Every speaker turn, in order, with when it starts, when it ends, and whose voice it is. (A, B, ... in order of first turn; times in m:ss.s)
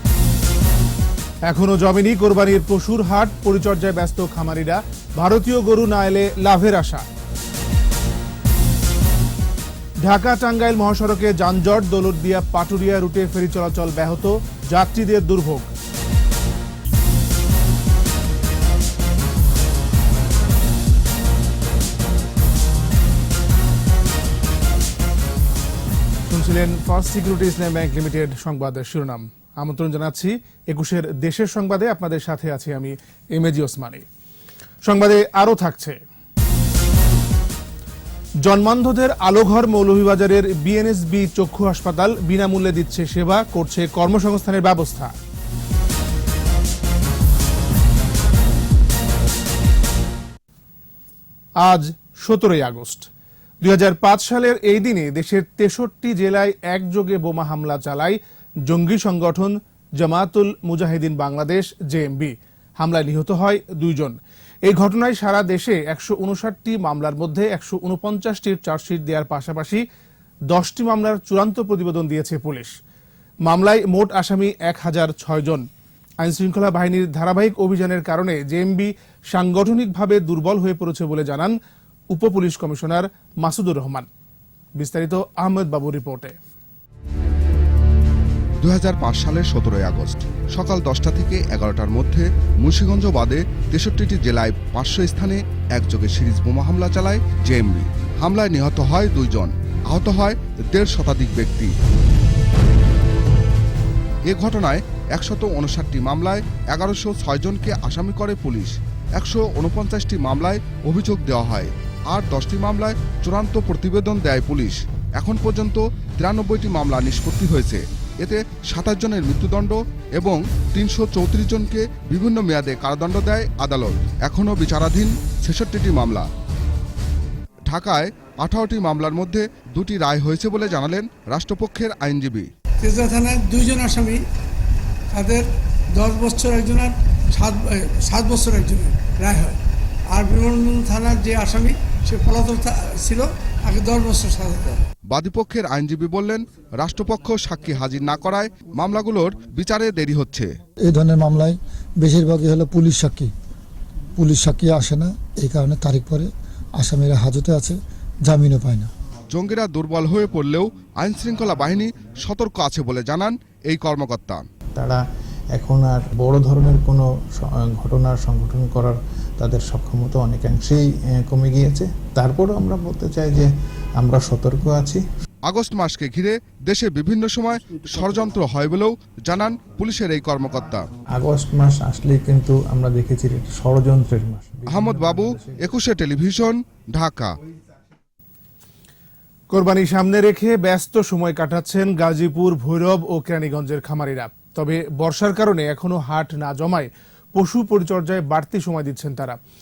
0:01.5-0:07.0 A
0:10.0-0:15.7 A
0:26.3-0:34.0 A
0:34.8-0:36.0 A
0:38.4-0:45.1 A
0:51.6-0:53.1 A
0:53.6-1:09.8 A
1:10.5-1:12.7 A
1:13.4-1:15.6 A
1:16.2-1:21.5 A
1:22.1-1:24.1 A
1:24.8-1:26.4 A
1:28.6-1:41.7 B
1:44.3-2:06.3 B
2:07.7-2:12.5 B
2:12.8-2:14.2 C
2:15.1-2:15.4 C
2:15.9-2:19.6 C
2:20.1-2:24.8 C
2:25.1-2:30.5 B
2:30.9-2:33.3 D
2:34.2-2:38.9 D
2:39.3-2:44.4 B
2:44.7-2:45.0 E
2:45.5-2:55.0 E
2:55.5-3:00.8 B
3:01.1-3:05.7 E
3:04.6-3:07.3 B
3:09.5-3:19.4 A